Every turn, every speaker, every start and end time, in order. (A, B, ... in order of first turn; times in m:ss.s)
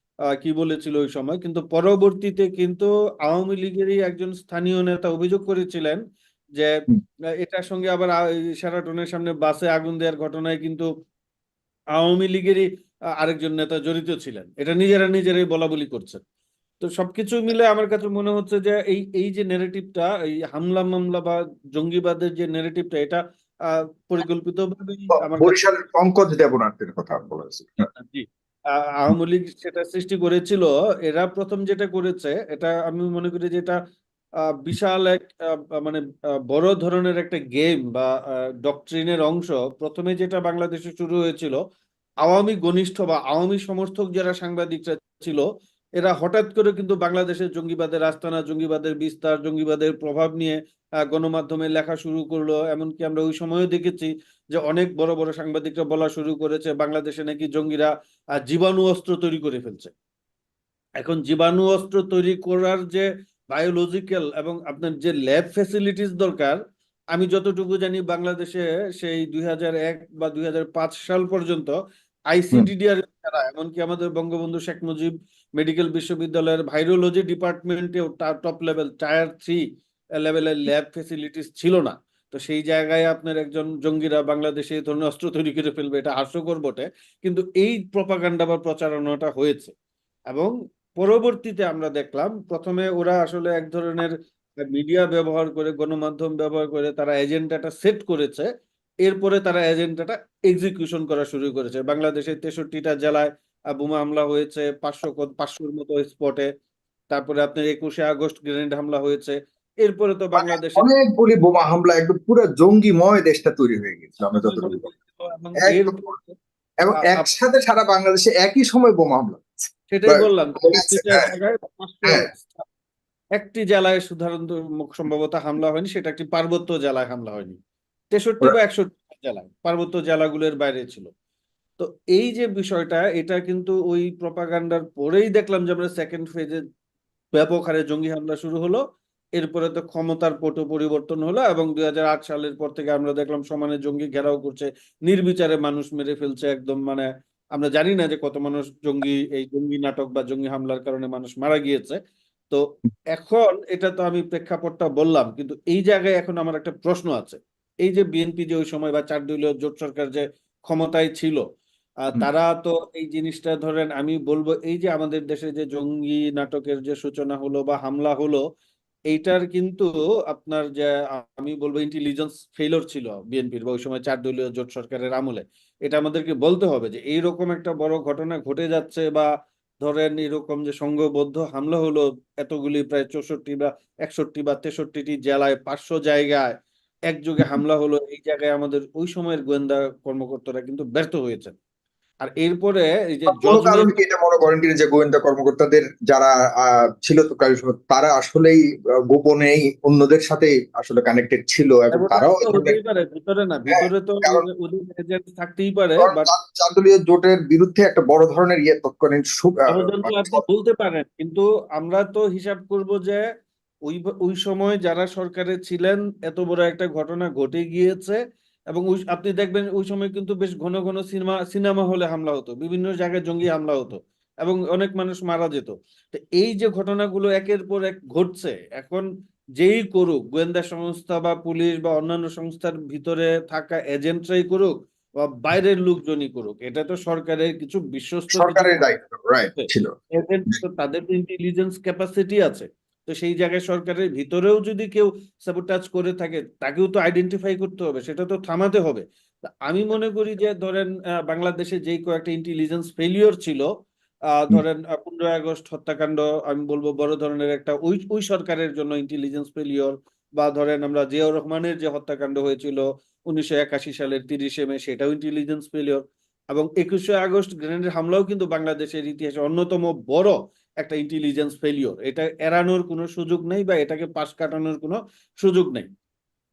0:00.4-0:06.0 A
0:07.4-0:10.9 A
0:12.0-0:12.7 A
0:13.2-0:16.2 A
0:16.8-0:23.2 A
0:23.7-0:25.6 A
0:25.2-0:27.8 B
0:28.0-0:33.8 A
0:34.6-0:41.6 A
0:42.2-0:45.4 A
0:46.0-0:50.6 A
0:51.1-0:59.9 A
1:01.0-1:06.6 A
1:07.1-1:11.8 A
1:12.3-1:19.6 A
1:20.2-1:29.7 A
1:30.3-1:38.5 A
1:39.0-1:46.5 A
1:47.1-1:50.9 A
1:50.4-1:54.9 B
1:54.4-1:56.3 A
1:55.6-1:56.0 B
1:56.8-2:01.3 B
1:56.9-1:57.3 A
1:59.9-2:02.6 A
2:03.4-2:07.6 A
2:08.1-2:11.1 A
2:11.8-2:16.6 A
2:17.3-2:18.8 A
2:19.4-2:32.0 A
2:32.5-2:41.4 A
2:42.1-2:48.4 A
2:49.1-2:59.3 A
2:59.8-3:06.5 A
3:07.1-3:11.5 A
3:12.2-3:13.9 A
3:13.3-3:18.6 B
3:19.1-3:22.8 B
3:21.9-3:26.3 A
3:23.7-3:24.5 B
3:26.0-3:30.4 B
3:29.7-3:33.3 A
3:33.9-3:38.2 A
3:38.7-3:49.1 A
3:49.6-3:58.9 A
3:58.3-3:59.9 B
3:59.6-4:09.0 A
4:09.6-4:13.7 A
4:14.4-4:35.9 A